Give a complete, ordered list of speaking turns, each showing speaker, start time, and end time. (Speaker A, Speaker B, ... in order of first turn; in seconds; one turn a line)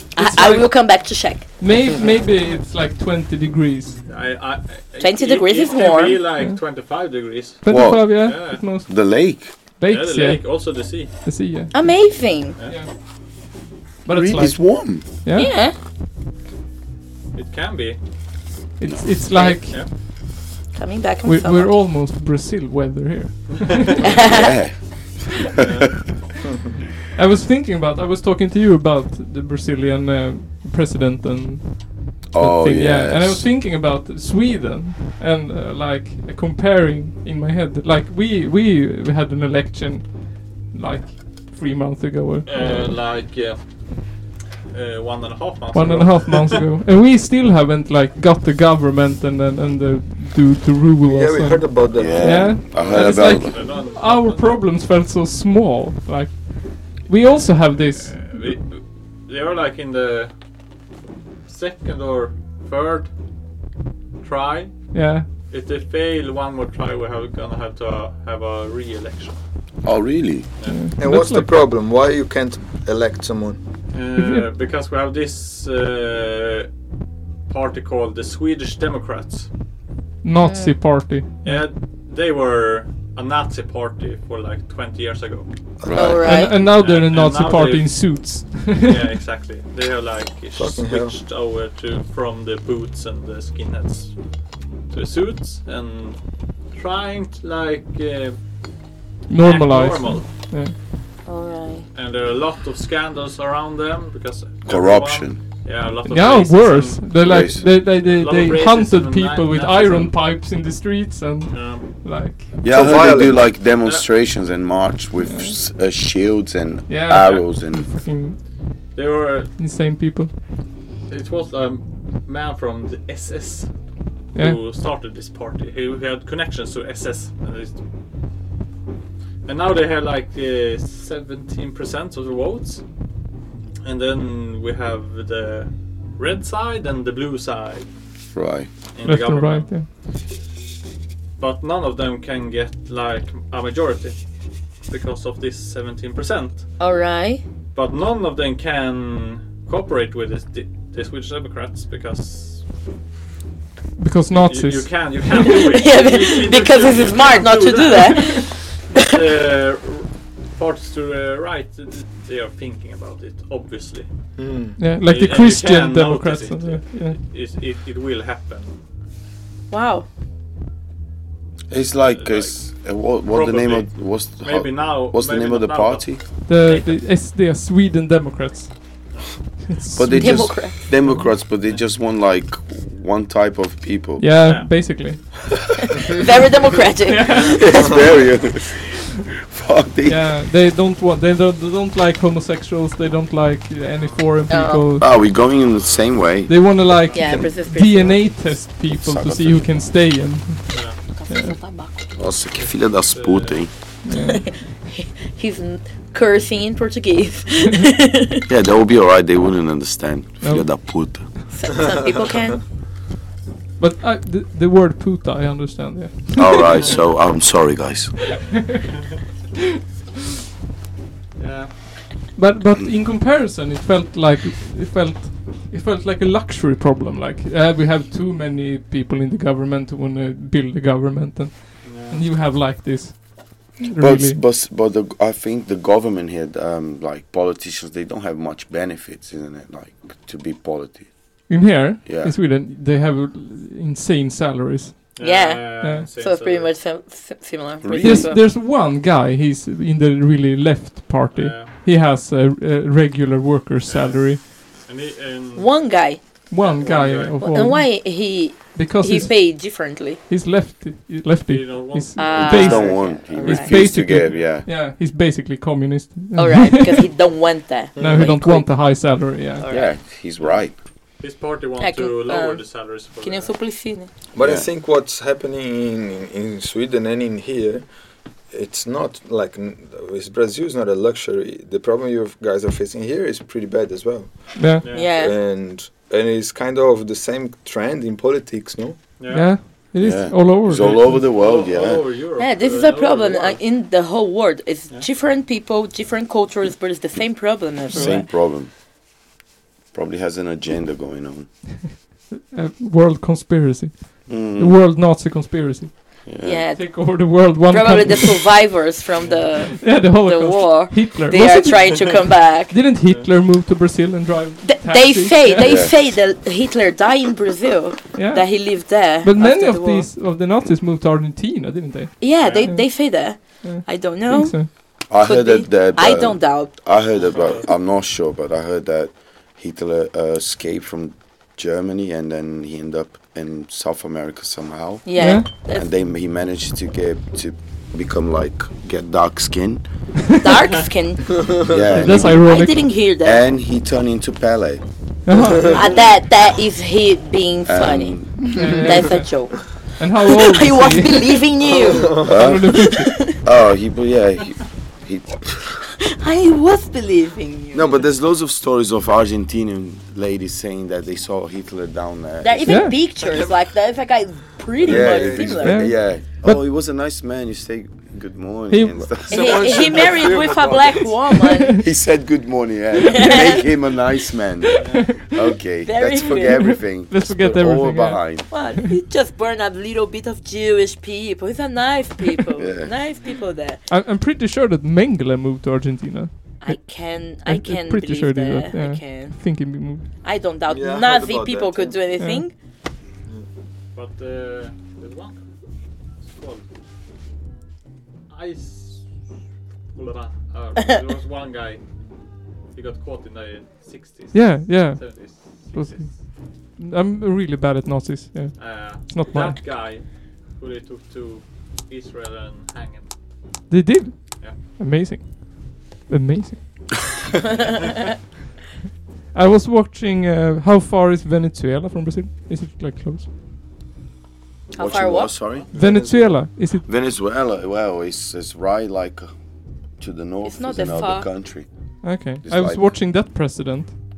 Speaker A: 0.1-1.5
Speaker B: 1.6-4.0
Speaker C: 4.0-8.6
Speaker A: 5.0-6.2
Speaker B: 7.6-9.2
Speaker D: 7.7-9.5
Speaker B: 9.8-12.1
Speaker C: 9.9-11.1
Speaker A: 11.7-12.6
Speaker B: 12.6-12.9
Speaker B: 14.1-15.6
Speaker D: 14.1-15.0
Speaker A: 15.3-15.7
Speaker C: 17.3-18.0
Speaker B: 18.8-19.8
Speaker D: 18.8-19.3
Speaker A: 19.3-19.9
Speaker A: 20.7-21.8
Speaker B: 21.2-24.1
Speaker C: 23.5-24.0
Speaker A: 24.0-24.5
Speaker D: 24.1-25.8
Speaker C: 25.6-26.1
Speaker B: 27.1-43.0
Speaker D: 32.3-33.5
Speaker C: 42.4-43.6
Speaker C: 44.7-46.6
Speaker B: 45.7-58.5
Speaker E: 51.0-52.6
Speaker D: 51.9-53.6
Speaker C: 52.7-54.6
Speaker C: 57.8-60.3
Speaker C: 61.4-63.1
Speaker C: 64.2-69.4
Speaker B: 64.9-65.3
Speaker D: 69.8-70.5
Speaker B: 70.6-71.6
Speaker E: 71.0-73.6
Speaker C: 73.9-76.7
Speaker B: 74.1-74.5
Speaker C: 77.5-79.5
Speaker B: 80.2-81.7
Speaker A: 80.4-80.8
Speaker C: 81.4-85.5
Speaker D: 85.8-86.3
Speaker A: 85.9-86.5
Speaker B: 86.2-89.0
Speaker C: 86.5-98.4
Speaker E: 90.5-91.2
Speaker B: 99.3-100.7
Speaker C: 99.3-100.3
Speaker A: 101.2-101.8
Speaker C: 101.9-110.2
Speaker D: 104.7-105.4
Speaker B: 106.0-112.6
Speaker D: 107.2-107.8
Speaker C: 111.5-112.0
Speaker D: 112.6-118.0
Speaker E: 112.6-113.5
Speaker C: 113.8-114.1
Speaker B: 115.2-115.5
Speaker B: 116.9-118.4
Speaker C: 118.9-119.5
Speaker B: 119.6-120.3
Speaker C: 121.1-123.7
Speaker C: 124.3-127.8
Speaker C: 129.4-132.8
Speaker C: 133.8-137.9
Speaker D: 138.3-138.7
Speaker C: 138.9-139.8
Speaker B: 139.0-139.9
Speaker C: 141.4-144.2
Speaker C: 144.9-146.7
Speaker A: 146.8-147.4
Speaker C: 147.7-152.7
Speaker B: 154.0-155.5
Speaker C: 154.4-164.1
Speaker A: 155.5-159.0
Speaker E: 164.4-164.8
Speaker B: 164.8-167.2
Speaker C: 165.0-168.8
Speaker A: 169.7-170.1
Speaker D: 171.7-176.3
Speaker C: 172.1-177.0
Speaker B: 176.5-181.3
Speaker C: 179.1-179.4
Speaker D: 179.9-184.5
Speaker A: 180.1-180.7
Speaker B: 184.2-185.2
Speaker C: 184.4-184.7
Speaker A: 186.0-187.9
Speaker B: 187.1-187.8
Speaker D: 187.5-190.4
Speaker B: 190.1-195.1
Speaker C: 193.9-194.2
Speaker A: 194.5-194.8
Speaker D: 195.0-196.8
Speaker C: 195.7-196.4
Speaker B: 196.5-201.5
Speaker A: 197.1-198.3
Speaker D: 198.9-199.9
Speaker C: 200.7-201.0
Speaker A: 201.1-202.1
Speaker D: 202.1-203.7
Speaker C: 202.6-203.7
Speaker B: 204.0-204.5
Speaker A: 204.2-208.4
Speaker D: 208.5-211.3
Speaker B: 210.4-211.0
Speaker A: 211.5-212.6
Speaker B: 213.8-216.9
Speaker D: 216.4-218.3
Speaker B: 218.5-218.8
Speaker C: 221.4-221.7
Speaker B: 222.3-234.4
Speaker C: 231.8-232.2
Speaker D: 233.9-241.3
Speaker B: 241.5-245.2
Speaker D: 242.0-242.3
Speaker C: 245.2-246.7
Speaker A: 245.2-248.4
Speaker B: 245.8-246.1
Speaker D: 247.8-248.3
Speaker B: 248.0-254.4
Speaker C: 251.3-251.8
Speaker C: 253.8-257.7
Speaker A: 255.6-256.7
Speaker B: 256.5-267.1
Speaker A: 257.4-260.2
Speaker C: 261.5-263.1
Speaker A: 262.1-263.8
Speaker D: 262.3-264.7
Speaker C: 264.1-264.6
Speaker A: 266.3-269.9
Speaker E: 267.9-268.3
Speaker B: 268.0-269.6
Speaker D: 269.7-270.8
Speaker C: 270.4-273.5
Speaker A: 271.8-274.1
Speaker E: 274.3-277.9
Speaker D: 274.4-274.7
Speaker E: 278.5-289.1
Speaker B: 284.6-284.9
Speaker C: 284.8-285.1
Speaker A: 284.9-285.4
Speaker C: 289.2-289.9
Speaker B: 289.3-291.2
Speaker D: 290.0-292.1
Speaker C: 290.7-293.6
Speaker A: 292.4-298.3
Speaker B: 297.9-298.2
Speaker D: 297.9-298.7
Speaker D: 299.9-301.6
Speaker B: 302.5-308.5
Speaker D: 304.3-304.9
Speaker D: 306.2-306.7
Speaker A: 306.4-312.8
Speaker C: 309.2-309.6
Speaker B: 309.8-316.0
Speaker C: 313.0-313.3
Speaker A: 314.6-320.1
Speaker D: 315.6-315.9
Speaker B: 318.1-324.7
Speaker A: 322.2-326.7
Speaker C: 322.4-322.7
Speaker D: 325.1-339.8
Speaker C: 327.3-327.6
Speaker A: 335.1-335.9
Speaker B: 335.2-335.5
Speaker A: 340.4-341.4
Speaker D: 341.7-344.8
Speaker B: 341.9-342.9
Speaker A: 342.4-343.4
Speaker B: 345.2-345.8
Speaker E: 345.4-345.7
Speaker A: 345.7-353.4
Speaker D: 347.6-348.7
Speaker B: 348.6-351.4
Speaker E: 351.6-352.5
Speaker D: 352.2-355.8
Speaker B: 352.3-353.4
Speaker A: 356.1-358.0
Speaker D: 357.7-362.9
Speaker A: 362.4-366.0
Speaker B: 362.6-363.0
Speaker E: 363.2-363.5
Speaker E: 364.8-365.8
Speaker D: 364.8-370.0
Speaker B: 365.6-366.6
Speaker B: 368.7-369.2
Speaker E: 369.3-371.4
Speaker A: 369.3-371.8
Speaker D: 371.8-378.5
Speaker A: 373.0-373.6
Speaker B: 373.2-373.5
Speaker B: 374.6-375.2
Speaker C: 374.8-375.0
Speaker A: 375.8-376.8
Speaker B: 377.1-378.6
Speaker A: 378.5-383.8
Speaker D: 382.6-382.9
Speaker B: 383.9-390.1
Speaker A: 386.6-392.5
Speaker E: 390.7-392.0
Speaker B: 392.2-392.4
Speaker C: 393.9-396.7
Speaker C: 398.3-399.2
Speaker C: 399.9-406.2
Speaker B: 404.3-409.7
Speaker C: 408.6-413.1
Speaker B: 413.7-416.9
Speaker B: 419.3-423.3
Speaker A: 424.7-425.4
Speaker D: 424.7-425.7
Speaker E: 425.7-426.5
Speaker B: 425.7-426.9
Speaker D: 426.7-429.3
Speaker D: 430.0-432.9
Speaker A: 430.4-431.3
Speaker B: 432.0-433.9